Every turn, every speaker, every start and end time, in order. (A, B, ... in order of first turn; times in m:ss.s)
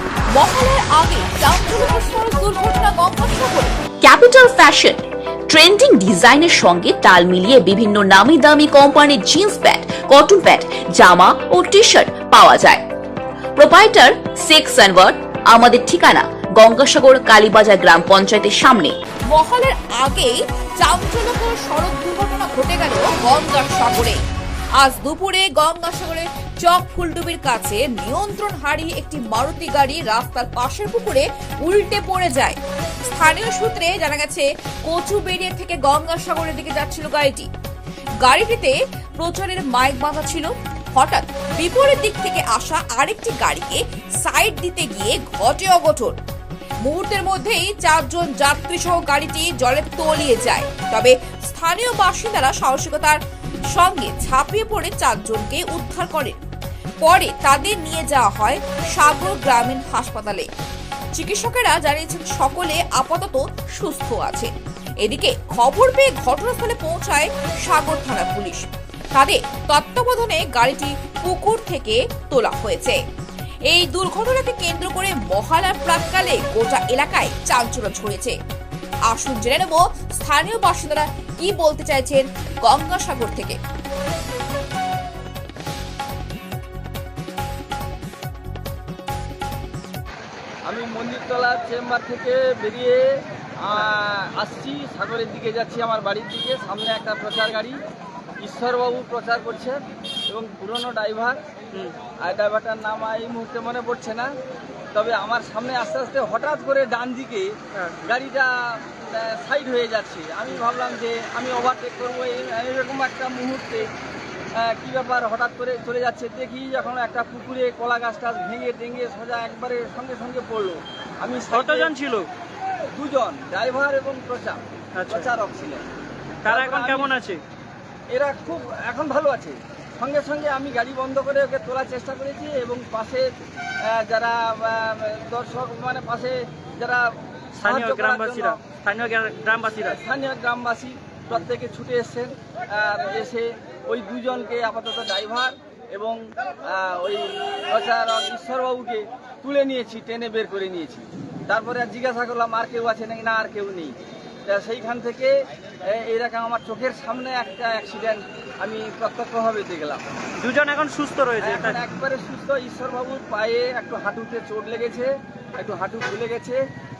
0:00.4-0:03.8 A
0:04.0-0:12.8 B
0:13.6-0:19.0 B
0:19.3-0:24.2 A
0:24.8-0:37.5 A
0:38.2-0:46.2 A
0:46.8-0:53.2 A
0:53.7-0:56.4 A
0:57.0-1:00.5 A
1:01.2-1:04.5 A
1:05.0-1:08.6 A
1:09.1-1:13.0 A
1:13.7-1:18.4 A
1:19.1-1:23.6 A
1:30.6-1:37.8 C
1:38.4-1:41.4 C
1:42.2-1:44.3 C
1:44.9-1:53.9 C
1:54.6-2:01.9 C
2:01.5-2:02.3 D
2:02.9-2:05.8 C
2:04.9-2:05.3 D
2:06.4-2:07.4 D
2:06.5-2:07.1 C
2:08.1-2:13.3 C
2:13.8-2:18.6 C
2:17.6-2:20.0 D
2:19.8-2:33.9 C
2:34.4-2:35.4 C
2:35.9-2:40.0 C
2:40.4-2:41.8 D
2:41.4-2:46.6 C